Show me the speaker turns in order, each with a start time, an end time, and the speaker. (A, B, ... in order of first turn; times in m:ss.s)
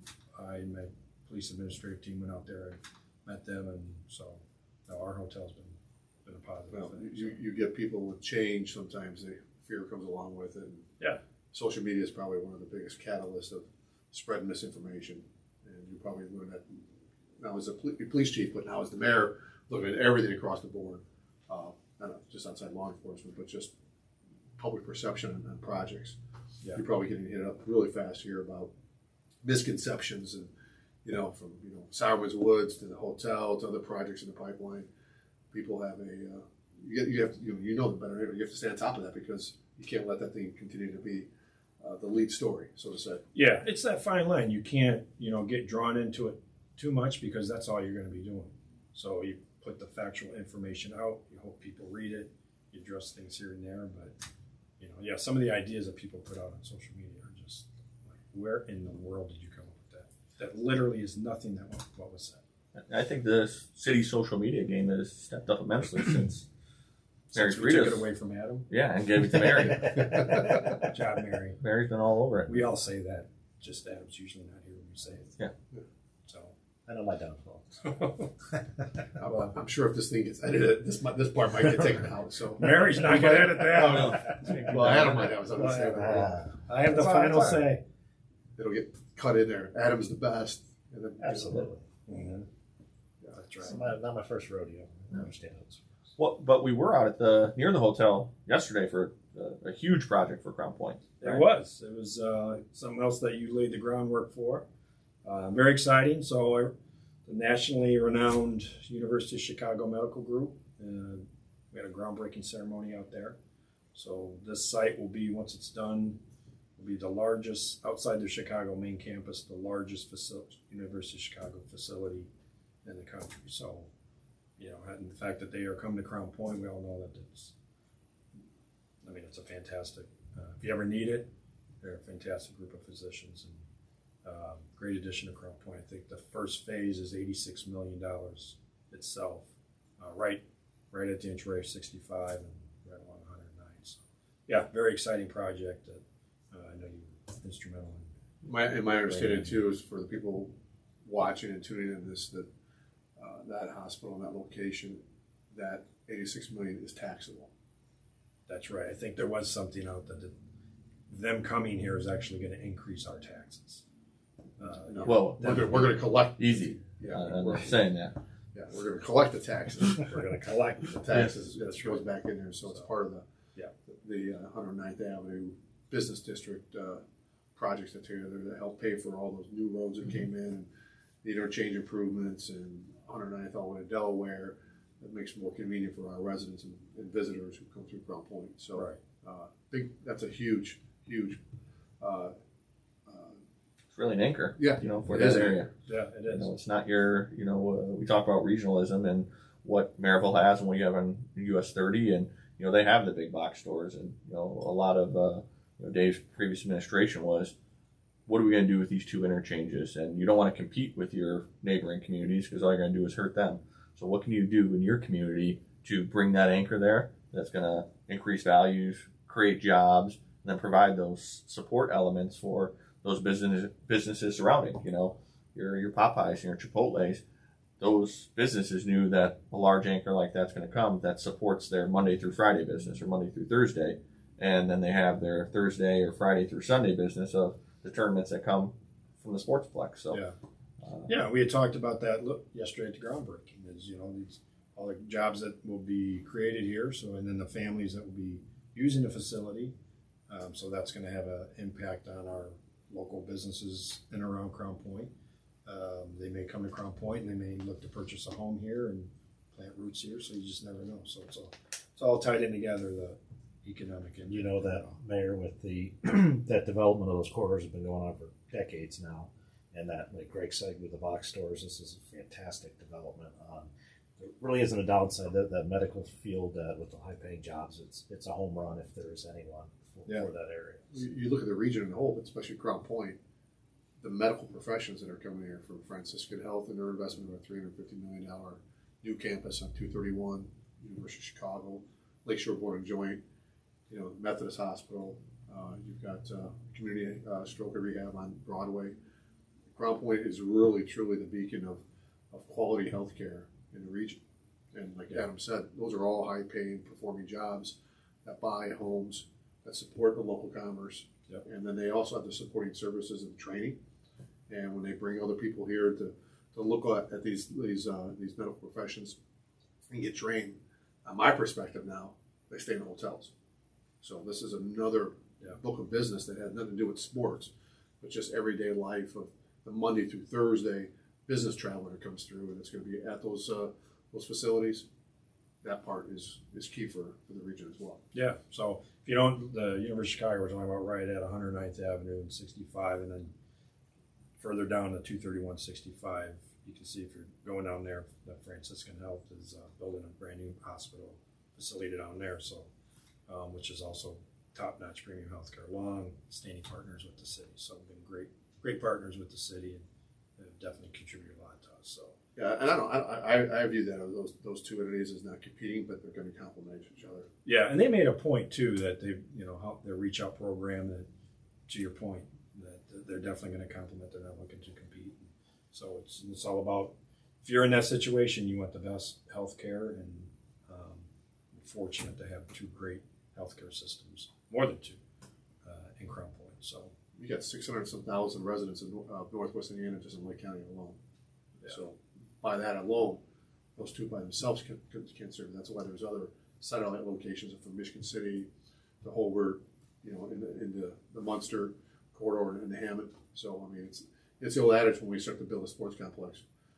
0:00.4-0:07.4 A
0:06.7-0:10.9 B
0:11.5-0:16.8 B
0:17.4-0:23.7 B
0:24.6-0:26.2 B
0:26.7-0:28.7 B
0:29.4-0:30.5 B
0:31.0-0:34.9 B
0:35.5-0:41.3 B
0:41.8-0:43.2 B
0:43.3-0:54.2 A
0:54.8-1:02.4 A
1:02.8-1:06.5 C
1:07.3-1:08.7 A
1:07.3-1:08.1 C
1:08.7-1:10.7 C
1:10.2-1:10.6 B
1:10.8-1:11.6 A
1:11.6-1:12.6 C
1:12.5-1:15.4 A
1:16.3-1:16.5 A
1:16.9-1:17.8 D
1:17.8-1:18.3 A
1:19.2-1:26.4 B
1:19.3-1:19.5 A
1:22.6-1:25.4 A
1:23.7-1:25.2 C
1:24.7-1:27.7 D
1:26.7-1:27.8 A
1:28.6-1:31.7 B
1:31.2-1:31.8 D
1:32.1-1:32.5 A
1:33.3-1:33.9 A
1:33.6-1:36.0 D
1:36.2-1:41.4 C
1:41.2-1:44.7 A
1:45.2-1:46.7 A
1:47.3-1:53.4 A
1:54.0-1:56.2 A
1:56.8-2:02.3 A
2:02.8-2:03.9 A
2:04.6-2:07.5 A
2:09.0-2:13.6 A
2:14.2-2:19.5 A
2:20.0-2:28.1 A
2:28.4-2:32.5 B
2:29.1-2:29.6 A
2:33.2-2:35.0 B
2:35.5-2:37.5 B
2:38.5-2:40.4 A
2:41.1-2:43.8 A
2:44.6-2:45.9 A
2:44.8-2:47.8 B
2:45.0-2:48.2 C
2:48.5-2:53.2 B
2:50.1-2:52.0 A
2:53.9-2:57.0 B
2:57.6-3:00.7 B
3:01.2-3:11.4 B
3:08.8-3:09.0 A
3:12.0-3:12.3 B
3:13.1-3:13.4 B
3:13.9-3:15.7 C
3:14.6-3:15.7 B
3:15.8-3:16.5 A
3:16.3-3:27.5 C
3:28.3-3:47.2 C
3:47.8-4:00.2 C
4:00.8-4:01.1 C
4:01.1-4:09.7 A
4:10.3-4:15.1 A
4:15.7-4:25.0 A
4:24.3-4:40.9 D
4:40.9-4:43.2 B
4:44.0-4:53.2 B
4:53.9-4:59.0 B
4:59.7-5:04.2 B
5:04.7-5:13.8 B
5:14.5-5:19.2 B
5:19.9-5:23.3 B
5:24.0-5:34.8 B
5:35.6-5:38.0 B
5:38.1-5:43.3 A
5:44.4-5:52.7 A
5:53.3-5:59.8 A
6:00.4-6:02.2 A
6:02.4-6:07.3 B
6:07.4-6:11.1 A
6:11.7-6:25.0 A
6:25.6-6:26.9 A
6:27.2-6:31.0 B
6:31.7-6:33.2 B
6:33.8-6:38.5 B
6:39.0-6:46.4 B